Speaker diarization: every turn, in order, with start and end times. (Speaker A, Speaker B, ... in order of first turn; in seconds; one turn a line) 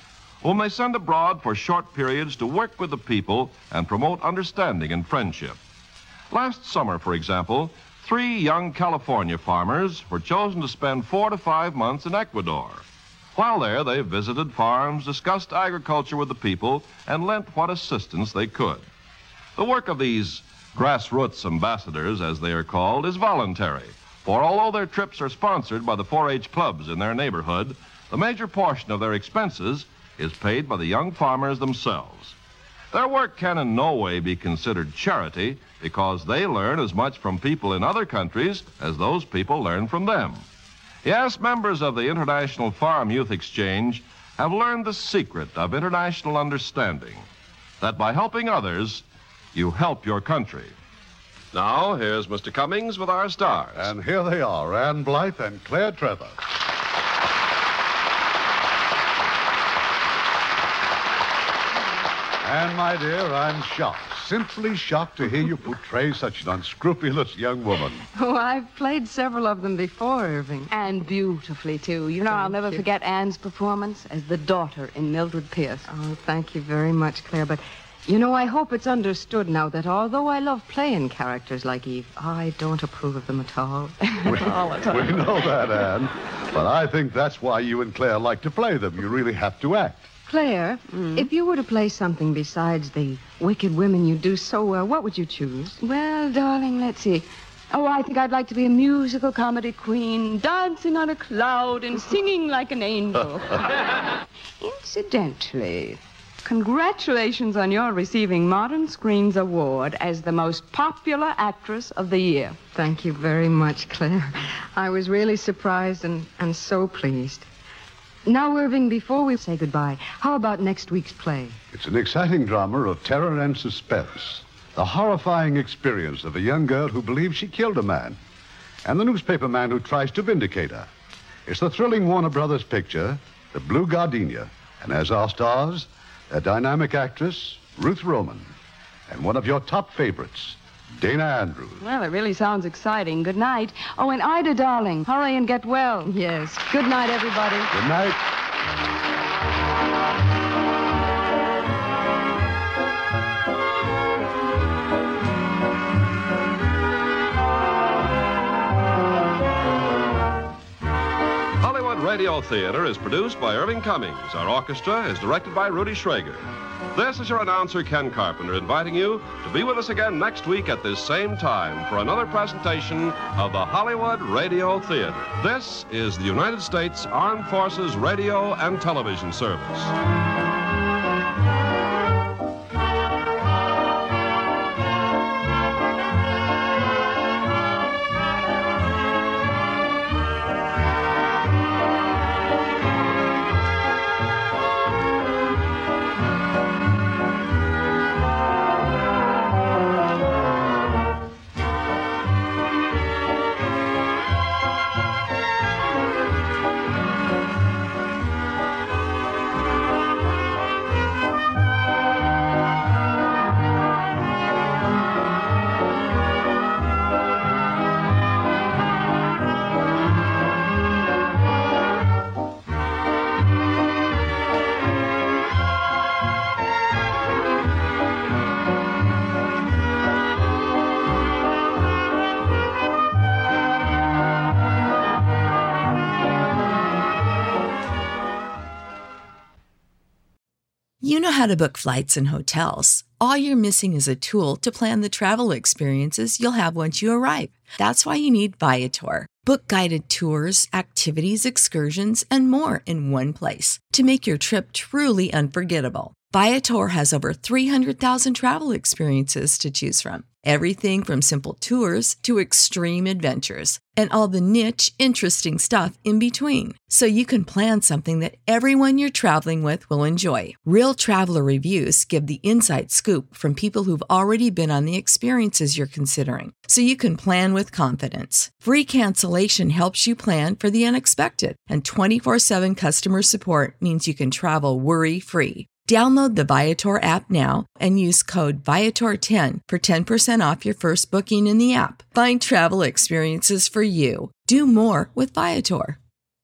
Speaker A: 0.4-5.6
Speaker A: 6.3-12.8
Speaker A: 13.3-18.8
Speaker A: 19.6-32.4
Speaker A: 32.9-40.4
Speaker A: 41.0-47.2
Speaker A: 47.8-50.7
Speaker A: 51.5-53.9
Speaker B: 53.8-56.4
Speaker B: 62.4-68.0
Speaker C: 68.1-70.7
Speaker D: 70.7-75.8
Speaker C: 72.2-72.8
Speaker C: 75.9-84.1
Speaker D: 84.2-85.0
Speaker B: 84.2-90.1
Speaker C: 90.3-95.8
Speaker D: 95.8-112.6
Speaker C: 112.7-117.5
Speaker C: 118.2-121.6
Speaker B: 121.7-128.2
Speaker B: 128.8-130.9
Speaker B: 131.4-138.5
Speaker B: 139.1-141.8
Speaker D: 141.8-146.1
Speaker C: 146.1-147.7
Speaker B: 147.7-148.2
Speaker A: 161.6-179.9
Speaker E: 241.0-296.0